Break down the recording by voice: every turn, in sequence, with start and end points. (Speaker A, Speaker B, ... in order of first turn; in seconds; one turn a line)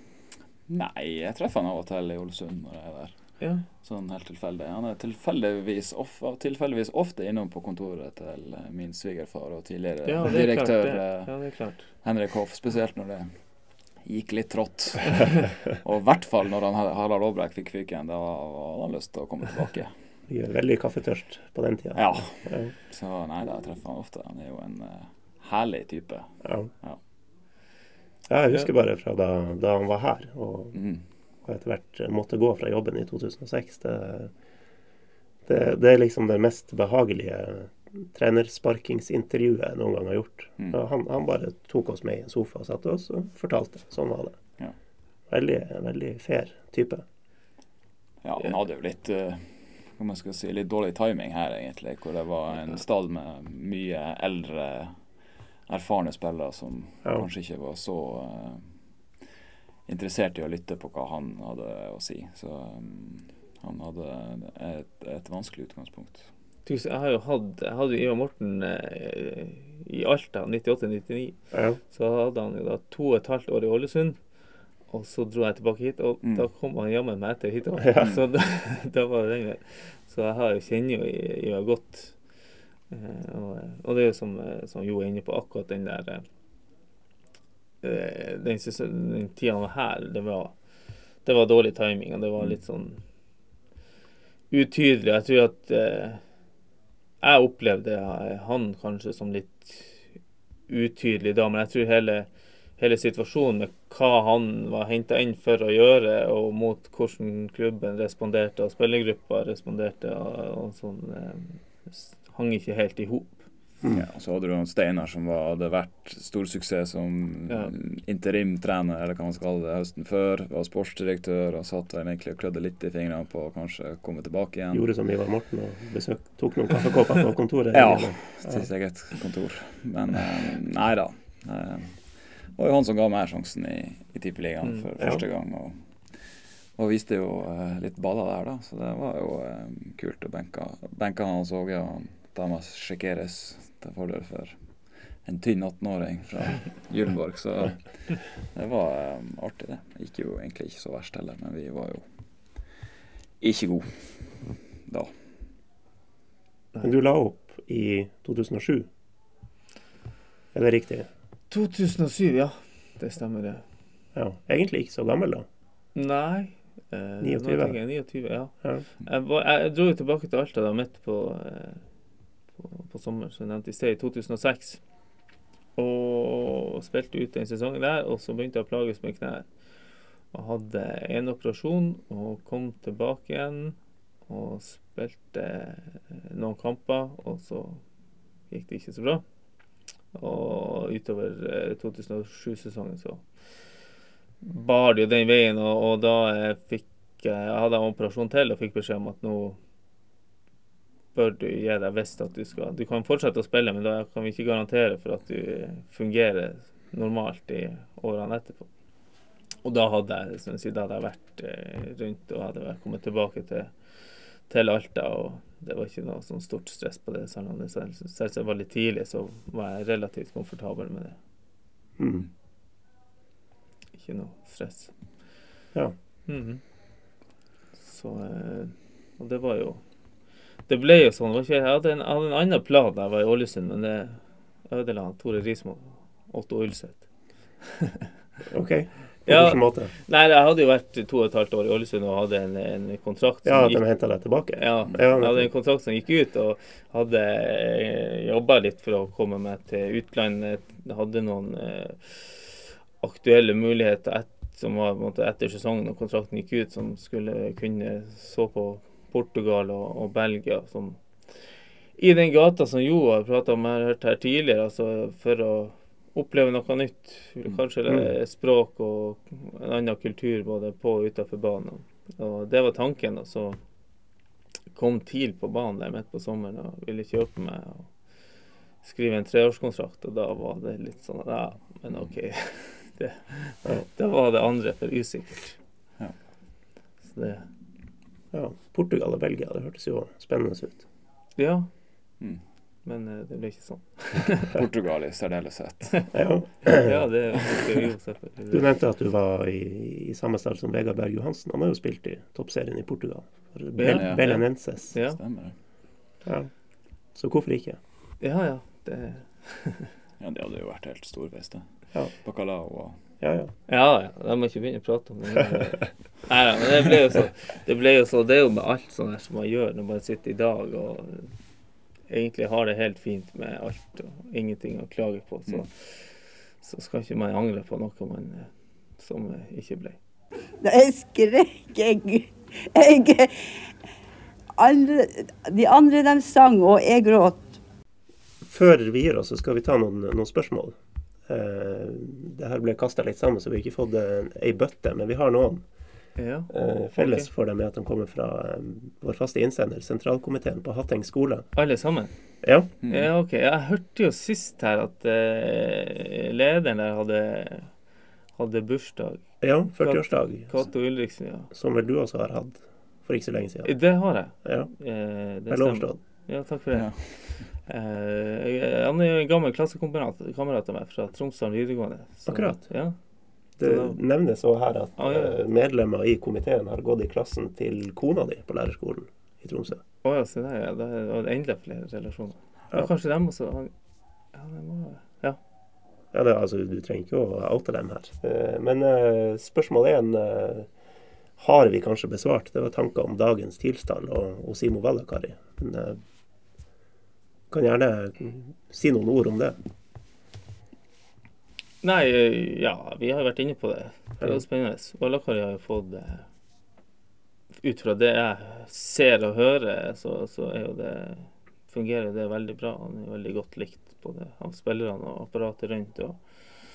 Speaker A: 0.7-13.4
Speaker B: 3.4-3.6
Speaker B: 10.0-11.9
Speaker A: 14.0-19.9
Speaker C: 20.3-22.7
Speaker A: 21.9-27.0
Speaker C: 26.4-26.7
Speaker C: 28.3-30.8
Speaker A: 30.7-31.0
Speaker C: 31.4-34.3
Speaker C: 35.5-44.4
Speaker C: 45.3-47.0
Speaker A: 48.2-55.0
Speaker A: 55.7-58.7
Speaker A: 59.9-66.3
Speaker B: 66.6-74.2
Speaker C: 71.5-71.8
Speaker B: 74.9-82.2
Speaker C: 77.8-78.1
Speaker B: 82.9-86.2
Speaker B: 87.8-90.5
Speaker B: 91.2-93.0
Speaker B: 94.5-96.2
Speaker B: 97.2-100.0
Speaker B: 100.7-113.5
Speaker A: 113.9-124.9
Speaker B: 117.5-117.7
Speaker C: 124.7-128.7
Speaker A: 127.7-136.2
Speaker A: 136.8-144.6
Speaker A: 145.2-152.0
Speaker A: 153.4-155.1
Speaker C: 156.8-158.9
Speaker C: 160.5-161.1
Speaker B: 161.5-163.6
Speaker C: 164.1-165.4
Speaker B: 165.9-171.8
Speaker C: 167.2-167.8
Speaker B: 172.6-174.8
Speaker B: 175.8-179.4
Speaker B: 180.3-183.8
Speaker B: 184.3-187.8
Speaker B: 188.5-189.2
Speaker B: 190.1-193.2
Speaker B: 194.4-199.6
Speaker B: 201.1-208.7
Speaker B: 209.6-213.7
Speaker B: 214.5-221.2
Speaker C: 222.0-222.2
Speaker B: 223.9-224.9
Speaker B: 226.3-226.6
Speaker B: 227.8-229.8
Speaker B: 230.7-237.1
Speaker C: 238.5-239.9
Speaker B: 239.3-243.8
Speaker C: 243.4-245.5
Speaker B: 244.6-261.4
Speaker B: 262.0-273.6
Speaker C: 267.9-268.1
Speaker B: 274.7-277.9
Speaker B: 278.8-285.6
Speaker B: 287.1-287.5
Speaker C: 288.3-290.8
Speaker B: 291.4-291.7
Speaker B: 292.8-294.5
Speaker A: 294.4-296.1
Speaker C: 296.1-297.0
Speaker B: 296.6-298.7
Speaker C: 298.5-304.9
Speaker B: 303.7-305.2
Speaker A: 303.9-304.4
Speaker A: 304.9-305.5
Speaker C: 306.2-306.5
Speaker C: 307.1-307.8
Speaker B: 308.2-309.9
Speaker A: 310.2-311.7
Speaker A: 312.2-313.0
Speaker C: 313.2-313.5
Speaker B: 313.7-321.3
Speaker B: 322.1-330.0
Speaker D: 330.6-333.3
Speaker D: 334.6-337.5
Speaker C: 338.4-340.8
Speaker C: 341.3-345.6
Speaker B: 346.2-347.3
Speaker C: 346.5-351.5
Speaker B: 351.6-352.1
Speaker C: 352.4-352.7
Speaker A: 352.8-353.1
Speaker B: 352.8-357.7
Speaker B: 358.4-361.5
Speaker C: 359.4-360.5
Speaker C: 361.5-363.8
Speaker B: 363.6-372.9
Speaker C: 364.3-364.7
Speaker C: 365.5-366.0
Speaker A: 366.7-367.5
Speaker C: 372.3-372.7
Speaker C: 373.6-379.8
Speaker B: 373.6-374.0
Speaker B: 375.0-375.4
Speaker B: 380.0-383.7
Speaker B: 384.3-385.4
Speaker C: 386.1-390.7
Speaker C: 391.4-396.0
Speaker C: 397.5-399.6
Speaker B: 401.8-406.2
Speaker B: 407.6-416.2